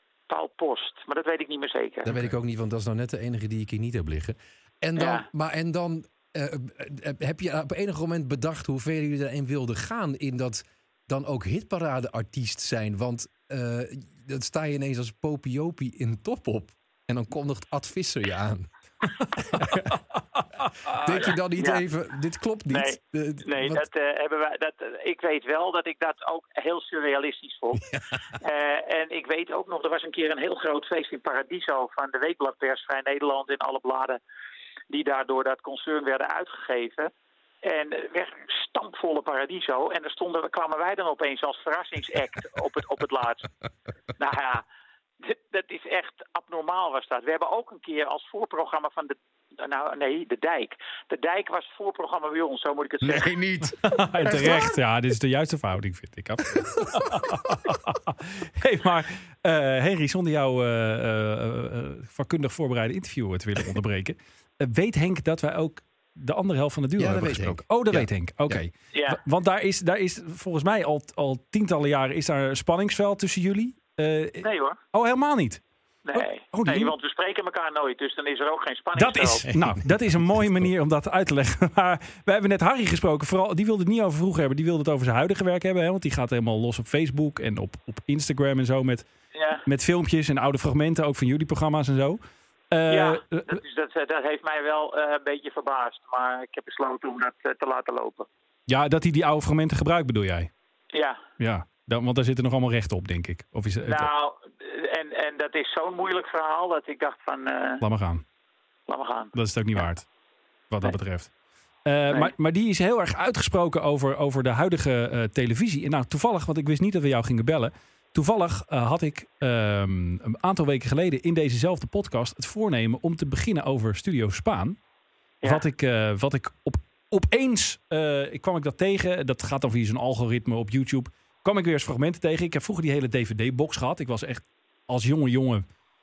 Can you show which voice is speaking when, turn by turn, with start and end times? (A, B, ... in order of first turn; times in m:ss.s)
0:00.3-0:02.3 A
0:02.0-0:20.0 B
0:05.0-0:05.3 A
0:19.8-0:21.0 C
0:20.9-0:23.9 B
0:21.6-0:21.8 A
0:22.7-0:27.8 A
0:28.4-0:34.2 A
0:34.9-0:37.1 A
0:37.6-0:43.5 A
0:44.2-0:44.6 A
0:45.2-0:53.4 A
0:53.1-0:53.7 B
0:53.6-1:15.6 C
0:54.3-0:54.6 B
1:07.0-1:08.6 B
1:08.9-1:09.2 A
1:14.4-1:14.8 A
1:16.0-1:19.5 A
1:16.2-1:17.0 C
1:19.0-1:29.1 C
1:19.5-1:20.6 B
1:29.3-1:29.6 A
1:29.6-1:33.6 C
1:32.9-1:38.3 A
1:38.7-1:40.5 C
1:40.9-1:41.2 A
1:41.4-1:44.1 C
1:43.9-1:47.8 A
1:47.8-1:48.2 C
1:48.9-1:49.9 A
1:49.3-1:50.1 C
1:50.7-1:51.3 C
1:51.8-2:04.8 C
2:05.4-2:15.7 C